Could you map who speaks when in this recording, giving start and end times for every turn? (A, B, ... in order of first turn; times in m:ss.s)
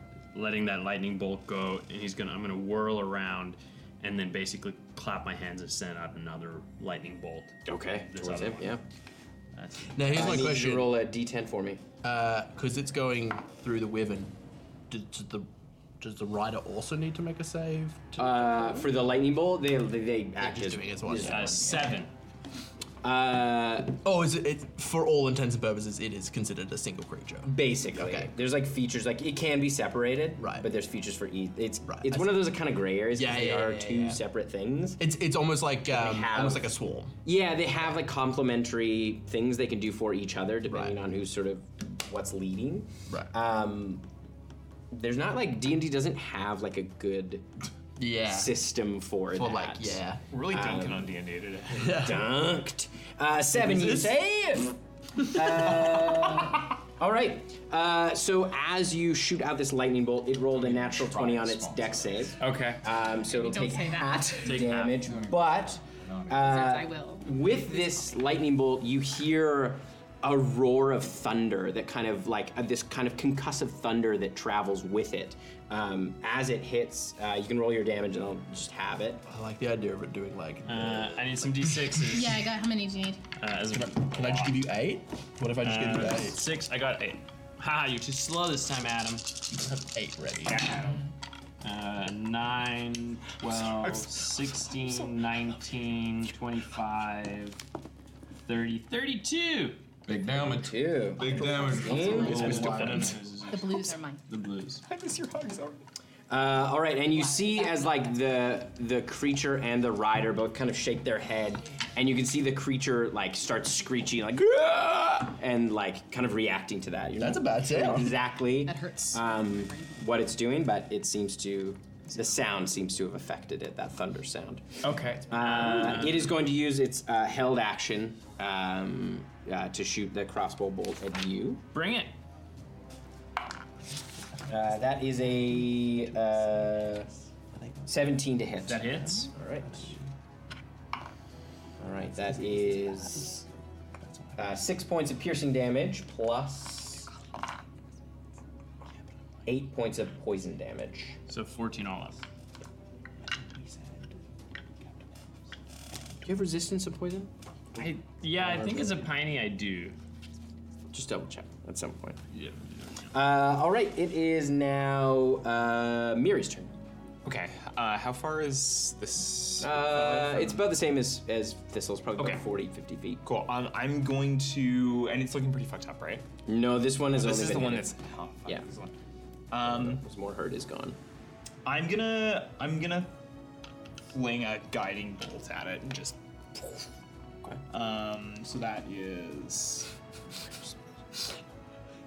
0:00.3-0:08.8 A
0:07.6-0:08.8 B
0:09.5-0:10.5 A
0:09.9-0:10.9 C
0:10.1-0:11.8 B
0:12.0-0:14.3 C
0:14.9-0:15.5 C
0:16.0-0:18.9 C
0:18.2-0:21.9 B
0:20.4-0:22.0 C
0:21.1-0:22.1 A
0:23.0-0:24.0 B
0:24.0-0:28.3 C
0:27.4-0:35.0 B
0:30.4-0:30.7 C
0:31.8-0:32.6 C
0:33.1-0:34.2 C
0:35.0-0:37.2 C
0:35.9-0:36.7 B
0:37.2-0:44.0 B
0:40.7-0:41.0 C
0:44.9-0:47.5 B
0:48.0-0:48.6 C
0:48.2-0:50.0 B
0:49.3-0:50.2 C
0:50.3-0:52.0 D
0:50.5-0:51.1 B
0:51.7-0:52.3 C
0:51.9-1:19.2 B
0:53.5-0:54.2 C
0:55.3-0:55.6 C
1:00.5-1:02.4 E
1:02.4-1:02.8 A
1:03.2-1:04.6 F
1:04.4-1:05.0 A
1:05.0-1:06.6 E
1:06.4-1:08.0 F
1:19.2-1:22.1 C
1:20.7-1:22.4 A
1:22.1-1:23.2 F
1:23.4-1:24.6 A
1:23.7-1:26.4 C
1:25.6-1:29.2 A
1:29.5-1:30.9 C
1:30.4-1:31.0 D
1:31.6-1:37.6 A
1:33.6-1:35.2 D
1:38.4-1:39.8 A
1:40.1-1:43.1 E
1:40.4-1:42.8 B
1:41.7-1:44.2 F
1:42.1-1:44.8 A
1:42.3-1:43.1 C
1:44.8-1:45.8 D
1:46.3-2:11.6 B
1:47.1-1:48.0 F
1:57.2-1:58.2 C
1:58.6-2:00.0 F
2:04.8-2:06.3 A
2:11.7-2:12.1 A
2:14.5-2:17.1 B
2:14.5-2:18.2 C
2:17.9-2:19.9 B
2:18.6-2:19.3 A
2:18.8-2:20.1 C
2:21.8-2:23.4 B
2:22.0-2:24.6 C
2:24.4-2:27.1 B
2:29.4-2:31.2 B
2:31.3-2:32.2 A
2:36.2-2:37.9 B
2:37.8-2:39.9 A
2:38.4-2:39.0 B
2:40.9-2:42.2 B
2:43.1-2:46.7 B
2:47.2-2:50.7 D
2:49.6-2:53.2 B
2:52.2-2:52.4 D
2:53.2-2:56.2 D
2:56.5-2:57.9 B
2:57.1-2:58.9 D
2:59.5-3:00.0 D
2:59.6-3:01.0 B
3:01.6-3:03.1 D
3:04.1-3:06.8 D
3:07.7-3:09.9 D